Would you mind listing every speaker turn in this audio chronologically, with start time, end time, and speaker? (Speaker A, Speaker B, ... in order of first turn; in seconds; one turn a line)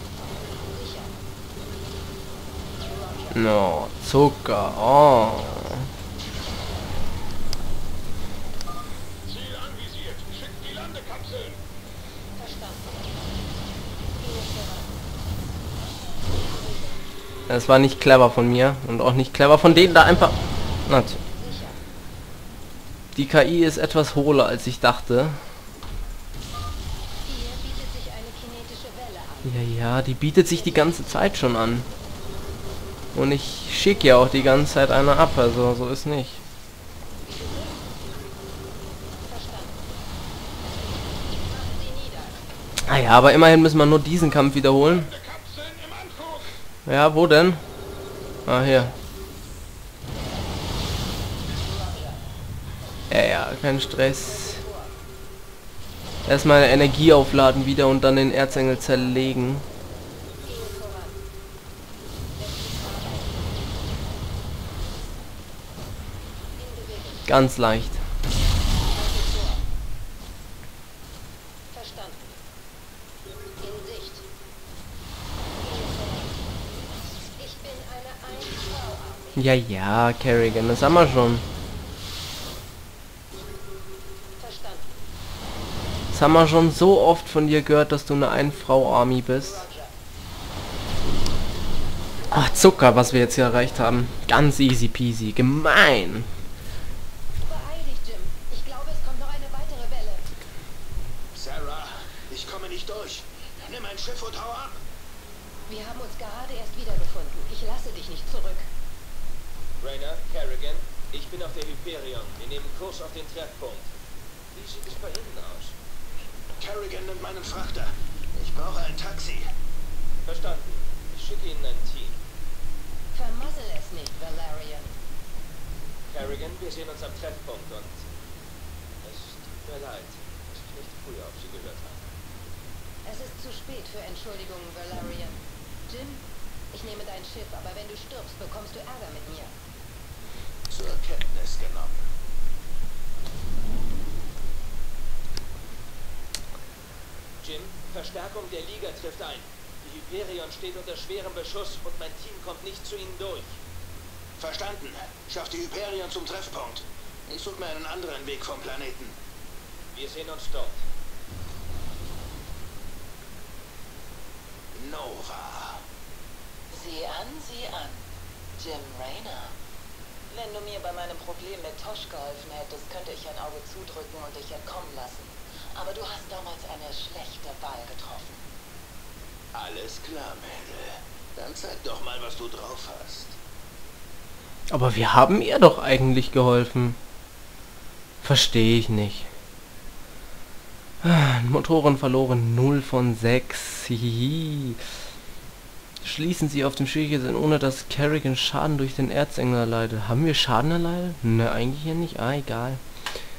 Speaker A: 0.3-1.1
Speaker A: 2.9-3.4
Speaker B: 3.3-5.9
Speaker C: 9.2-11.6
Speaker A: 12.3-13.3
Speaker A: 14.2-14.9
Speaker A: 16.3-17.0
Speaker B: 17.5-21.2
Speaker A: 17.6-18.6
Speaker A: 20.2-20.5
Speaker A: 21.3-21.8
Speaker B: 23.1-25.4
Speaker A: 27.2-29.6
Speaker B: 29.4-31.9
Speaker A: 30.5-31.4
Speaker B: 33.1-36.4
Speaker A: 33.9-34.5
Speaker A: 37.2-37.8
Speaker A: 39.2-39.8
Speaker A: 41.2-42.4
Speaker B: 42.9-45.1
Speaker C: 44.9-46.5
Speaker B: 46.9-47.6
Speaker B: 48.5-48.9
Speaker A: 48.5-49.0
Speaker A: 51.6-52.2
Speaker A: 52.9-54.9
Speaker B: 53.1-54.6
Speaker B: 56.2-59.6
Speaker A: 58.4-59.5
Speaker A: 60.4-61.2
Speaker A: 62.4-63.4
Speaker A: 66.6-67.3
Speaker B: 67.3-68.0
Speaker A: 68.8-69.6
Speaker A: 71.7-72.4
Speaker A: 73.6-74.2
Speaker A: 75.6-76.3
Speaker A: 77.4-79.5
Speaker B: 79.3-81.4
Speaker A: 84.4-84.9
Speaker B: 86.1-89.6
Speaker A: 89.4-89.9
Speaker B: 92.3-96.3
Speaker A: 97.4-100.2
Speaker D: 101.3-104.8
Speaker A: 105.7-108.7
Speaker E: 109.8-113.9
Speaker E: 114.5-115.7
Speaker D: 116.6-119.5
Speaker E: 120.2-122.2
Speaker A: 123.1-125.0
Speaker E: 126.1-128.0
Speaker E: 129.0-132.0
Speaker A: 133.0-139.5
Speaker D: 140.7-142.0
Speaker E: 147.4-153.6
Speaker D: 154.4-159.2
Speaker E: 159.9-160.8
Speaker D: 164.7-165.8
Speaker F: 166.7-168.0
Speaker F: 168.6-169.5
Speaker F: 170.3-178.4
Speaker D: 179.5-183.4
Speaker B: 184.7-187.0
Speaker B: 188.2-189.3
Speaker B: 191.0-194.8
Speaker B: 196.0-202.8